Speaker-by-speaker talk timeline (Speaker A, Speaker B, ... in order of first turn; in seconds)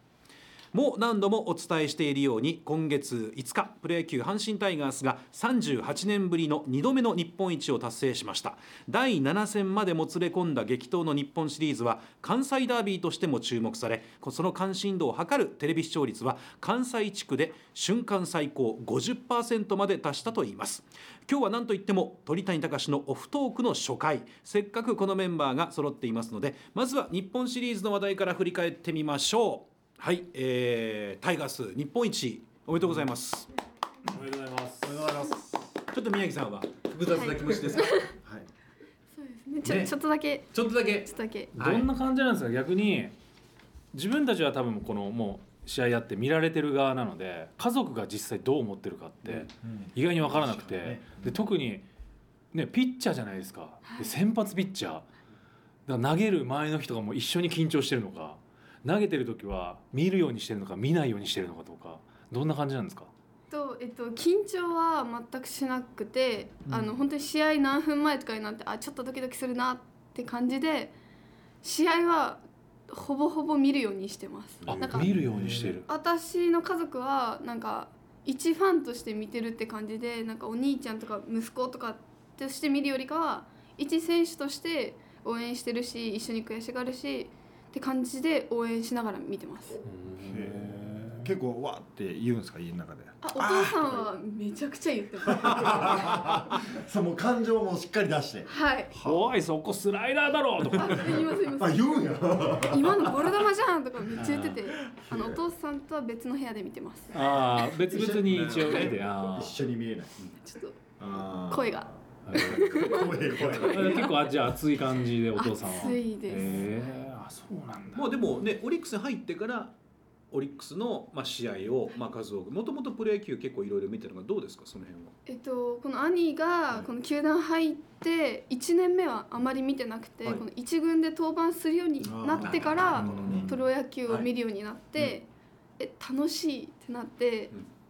Speaker A: 0.7-33.5, 35.9-38.1, 39.6-39.9, 40.5-41.9, 74.6-75.6, 108.3-108.9, 117.9-119.7, 120.3-125.1, 132.0-134.3
Speaker B: 34.0-35.1, 41.5-43.1, 43.9-51.9, 52.5-55.1, 55.9-63.1, 74.6-75.9, 89.8-91.3, 99.0-101.3, 104.2-104.6, 107.1-109.6, 112.2-113.0, 113.5-118.1
Speaker C: 34.8-35.7, 49.6-51.4, 75.0-75.8, 90.2-94.1, 95.3-99.3, 101.5-103.3, 105.0-105.4, 107.6-110.1, 111.0-114.2, 133.0-133.5
Speaker D: 37.1-38.1, 39.1-41.5, 53.9-54.1, 63.5-70.9, 71.6-75.1, 75.9-89.8, 93.2-96.4, 98.5-98.9, 100.8-101.9, 102.6-107.2, 110.4-110.8, 111.5-114.1, 115.3-116.6, 125.2-135.3, 135.8-137.5